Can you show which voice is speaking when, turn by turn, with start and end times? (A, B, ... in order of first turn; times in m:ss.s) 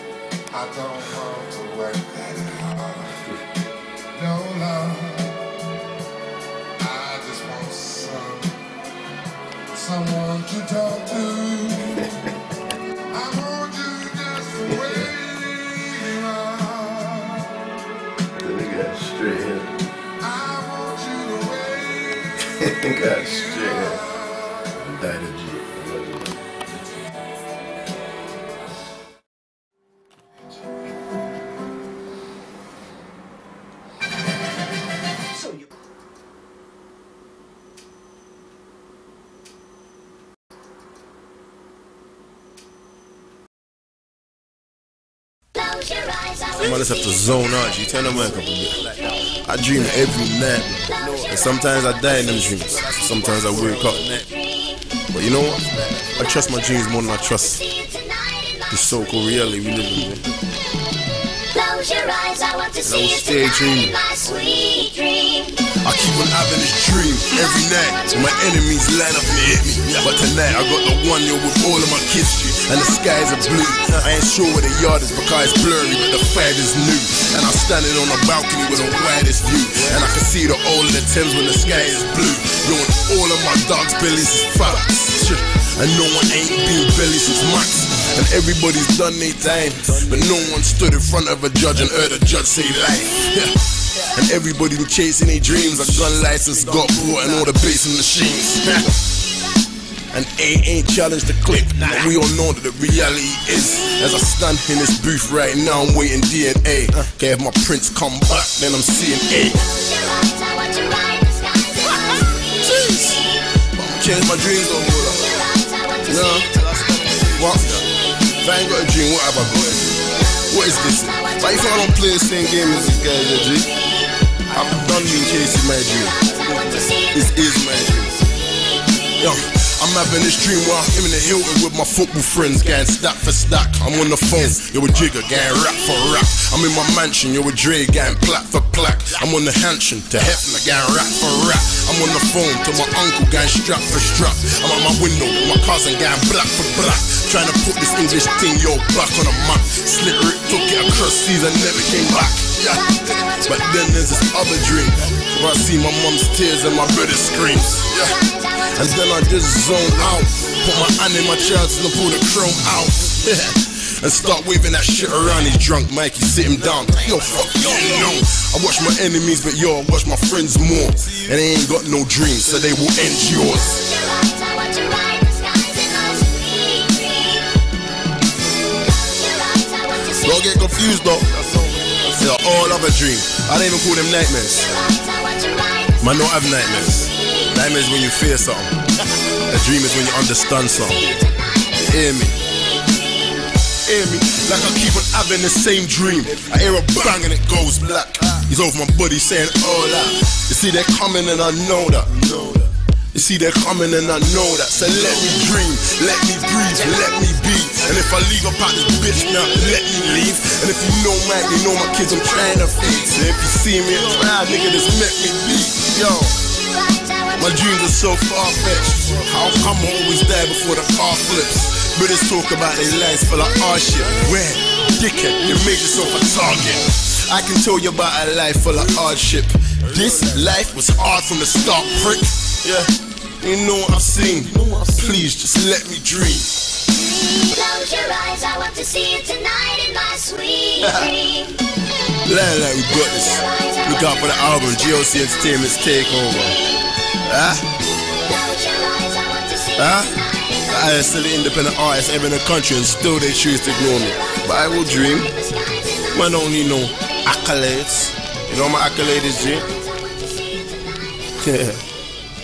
0:00.6-0:03.1 A
0:02.4-0:03.2 B
0:04.1-0:05.4 A
0:06.8-0:08.6 A
0:09.7-0:11.9 A
0:13.1-0:17.6 A
0:14.7-0:15.2 B
0:14.8-0:15.1 C
0:18.4-0:19.8 B
0:20.2-0:22.3 A
0:22.5-0:24.1 B
0:22.6-0:24.0 C
0:23.5-0:24.7 A
0:24.8-0:26.4 B
0:45.6-0:46.4 D
0:46.5-0:54.3 C
0:53.4-0:53.9 B
0:55.1-0:57.7 C
0:58.7-1:00.3 C
1:01.5-1:02.8 D
1:02.8-1:04.3 C
1:04.3-1:05.5 D
1:05.5-1:39.0 C
1:40.1-1:49.8 C
1:49.9-1:51.9 D
1:52.0-1:55.5 C
1:56.0-1:56.6 C
1:56.6-1:57.2 B
1:57.2-2:03.7 C
2:04.5-2:08.2 C
2:09.2-2:54.0 C
2:54.1-2:57.3 D
3:00.0-3:04.7 C
3:05.1-3:05.8 D
3:05.9-3:11.1 C
3:11.7-3:12.4 C
3:13.8-3:36.4 C
3:37.3-3:56.6 C
3:57.3-4:01.1 D
4:00.8-4:01.5 C
4:02.2-4:06.6 C
4:07.2-4:07.8 C
4:08.3-4:09.6 D
4:09.7-4:15.3 C
4:16.1-4:19.7 C
4:21.4-4:21.8 C